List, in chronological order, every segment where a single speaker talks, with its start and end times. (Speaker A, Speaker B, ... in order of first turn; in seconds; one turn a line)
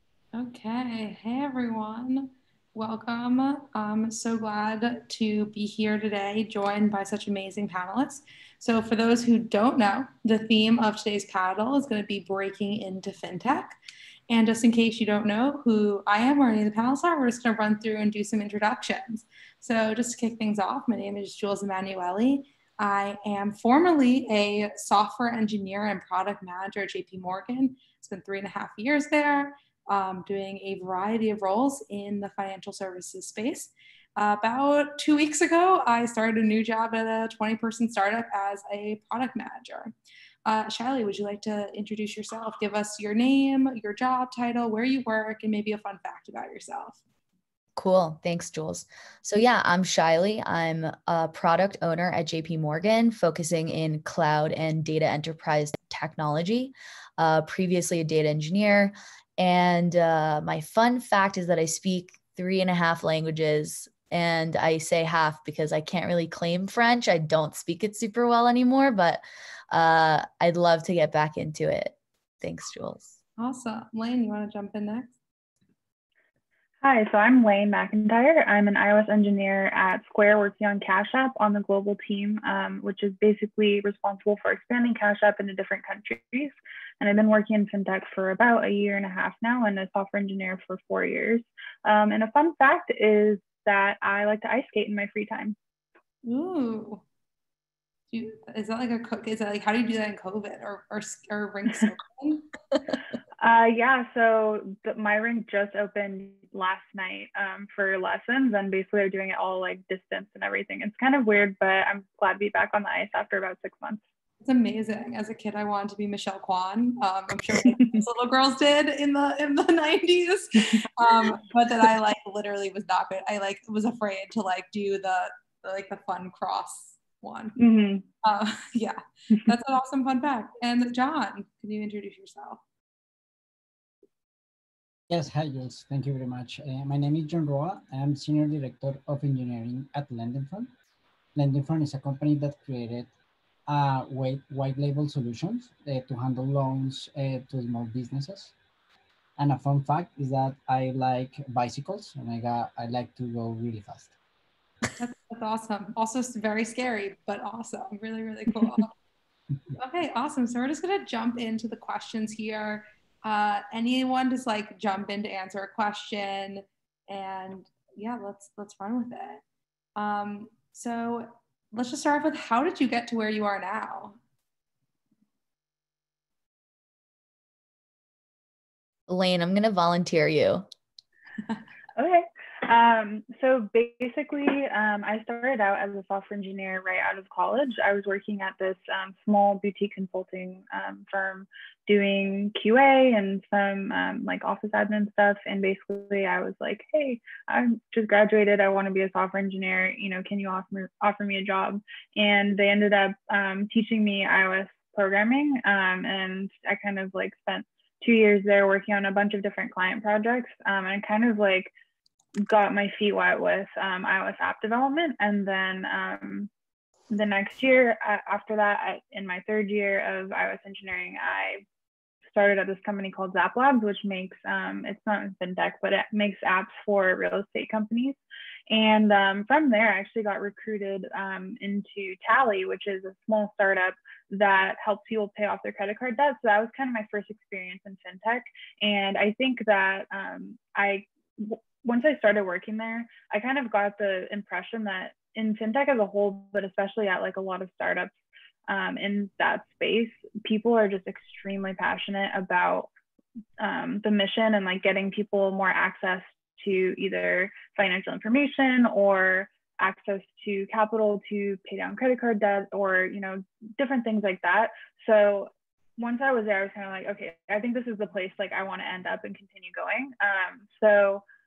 Speaker A: 0.3-13.8
Speaker A: 14.3-39.9
Speaker A: 40.5-47.0
Speaker B: 47.8-73.2
Speaker A: 73.4-75.1
Speaker C: 76.8-95.6
Speaker A: 96.2-97.0
Speaker A: 98.1-102.5
Speaker C: 103.4-114.0
Speaker A: 114.4-127.6
Speaker C: 127.6-128.1
Speaker A: 128.2-132.6
Speaker D: 135.1-140.7
Speaker D: 141.3-143.1
Speaker D: 143.7-148.5
Speaker D: 149.4-154.2
Speaker A: 155.0-158.9
Speaker A: 159.8-169.4
Speaker A: 170.0-174.2
Speaker B: 179.1-180.7
Speaker C: 182.0-211.7
Speaker C: 212.5-216.5
Speaker C: 217.1-221.6
Speaker C: 222.3-248.1
Speaker C: 248.7-252.9
Speaker C: 253.6-271.2